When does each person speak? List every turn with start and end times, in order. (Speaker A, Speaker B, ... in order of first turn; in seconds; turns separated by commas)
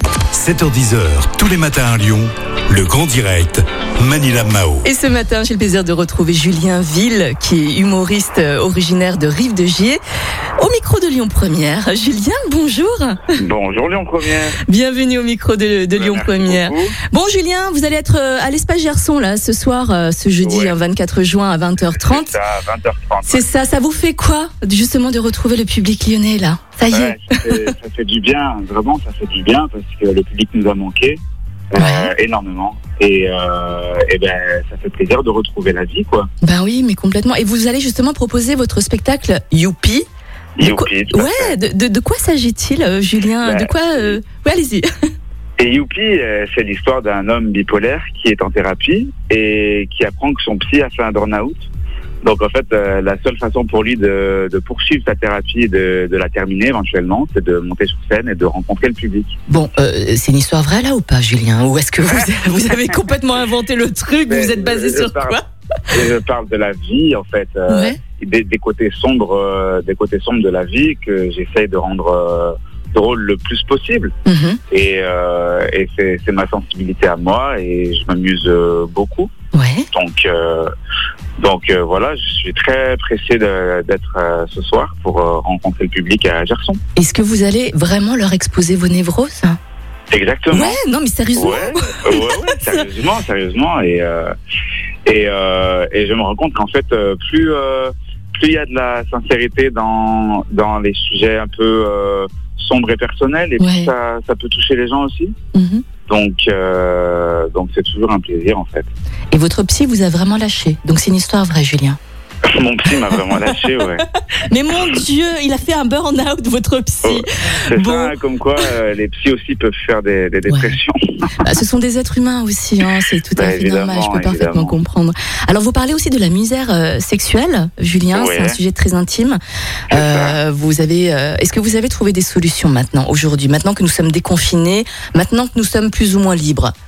Speaker A: 0.3-4.9, Speaker B: 4.8-10.0, Speaker B: 10.6-13.4, Speaker C: 13.4-14.6, Speaker B: 14.6-22.3, Speaker C: 15.9-17.0, Speaker C: 20.4-20.8, Speaker C: 21.9-23.4, Speaker B: 23.3-27.6, Speaker C: 26.9-31.2, Speaker C: 31.7-36.3, Speaker B: 31.8-32.1, Speaker B: 36.4-40.1, Speaker C: 40.6-41.5, Speaker B: 40.6-44.9, Speaker C: 43.4-44.2, Speaker C: 45.6-51.7, Speaker C: 52.2-59.4, Speaker B: 59.5-65.5, Speaker C: 64.3-65.4, Speaker C: 65.9-74.1, Speaker B: 67.7-68.0, Speaker B: 74.3-74.6, Speaker C: 74.7-79.3, Speaker B: 79.5-79.9, Speaker C: 79.9-80.7, Speaker C: 81.4-86.8, Speaker B: 87.0-89.6, Speaker C: 90.1-90.8, Speaker B: 90.5-92.8, Speaker C: 91.4-94.3, Speaker C: 95.1-105.4, Speaker B: 103.6-103.9, Speaker B: 105.5-105.8, Speaker C: 106.1-108.9, Speaker B: 109.3-112.0, Speaker C: 112.5-114.0, Speaker B: 113.2-118.7, Speaker C: 117.0-121.3, Speaker B: 120.5-120.8, Speaker B: 121.4-129.4, Speaker C: 123.4-124.8, Speaker C: 128.1-128.6, Speaker C: 129.9-130.4, Speaker B: 129.9-136.7